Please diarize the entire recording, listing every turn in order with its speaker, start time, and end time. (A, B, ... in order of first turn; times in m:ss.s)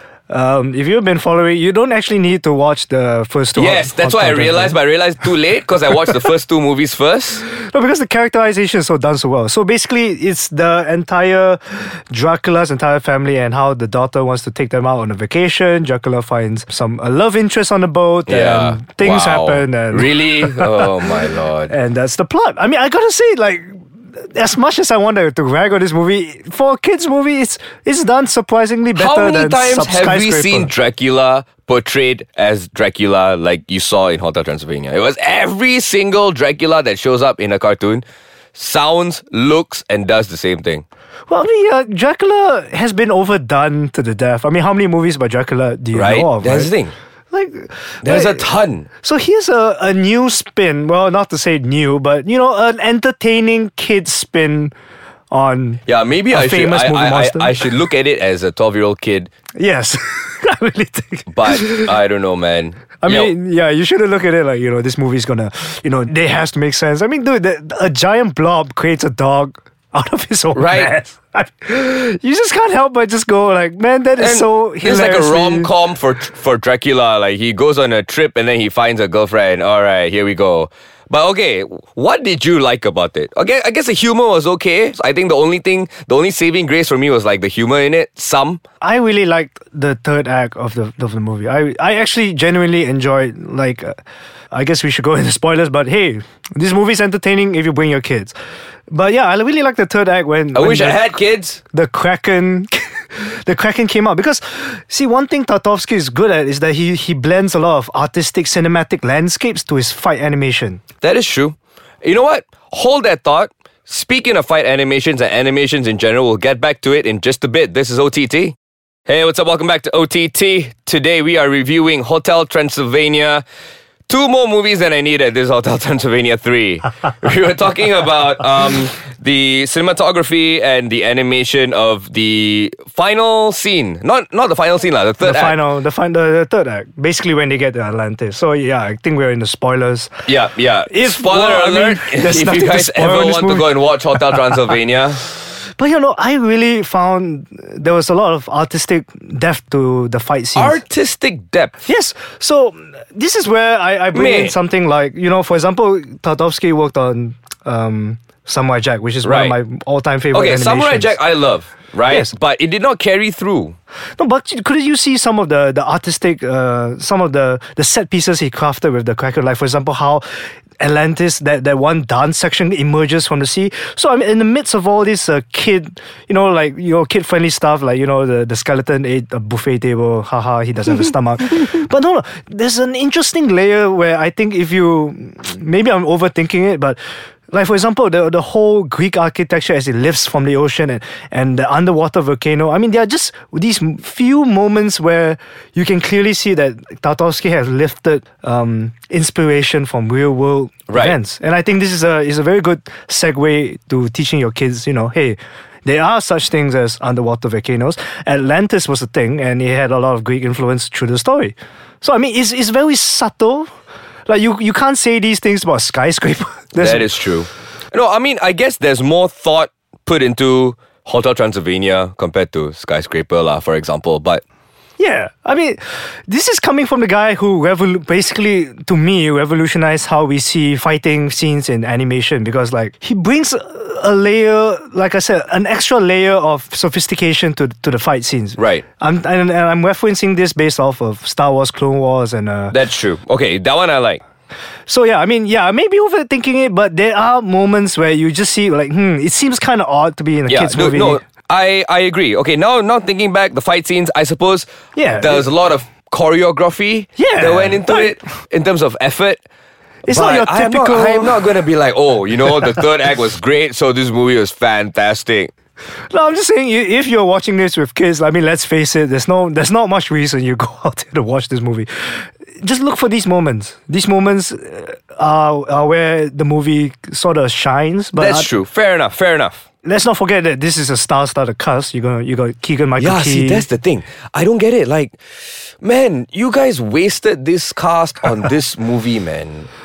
0:00.3-0:04.8 A
0:03.5-0:07.4 B
0:07.5-0:20.9 A
0:18.3-0:21.7 B
0:21.7-0:30.7 A
0:28.9-0:38.0 B
0:38.5-0:40.8 B
0:41.3-0:46.7 A
0:45.9-0:46.9 B
0:47.3-0:48.5 A
0:48.0-0:48.9 B
0:49.0-0:54.7 A
0:55.3-0:57.6 A
0:55.8-0:59.3 B
0:59.6-1:01.9 A
1:01.3-1:03.3 B
1:03.0-1:15.7 A
1:10.5-1:10.9 B
1:14.2-1:28.6 B
1:28.8-1:33.9 A
1:34.5-1:38.3 A
1:38.9-1:41.2 A
1:40.5-1:41.6 B
1:41.7-1:50.8 A
1:51.0-1:58.6 B
1:59.1-2:03.4 B
2:04.1-2:15.6 B
2:15.2-2:20.2 A
2:20.3-2:25.2 B
2:20.9-2:24.4 A
2:25.6-2:30.8 A
2:30.6-2:31.7 B
2:31.8-2:41.2 A
2:34.1-2:34.5 B
2:39.2-2:39.6 B
2:40.3-2:43.8 B
2:44.2-3:07.0 A
3:07.5-3:33.7 A
3:20.9-3:21.2 B
3:34.3-3:37.1 A
3:36.8-3:44.4 B
3:45.0-4:02.8 A
3:58.6-3:58.8 B
4:02.7-4:04.2 B
4:04.9-4:11.2 A
4:10.5-4:19.4 B
4:14.9-4:15.5 A
4:17.2-4:18.2 A
4:20.0-4:21.4 A
4:20.1-4:25.5 B
4:26.1-4:38.5 A
4:38.2-4:39.6 B
4:39.8-4:43.6 A
4:43.0-4:45.2 B
4:45.8-4:49.7 B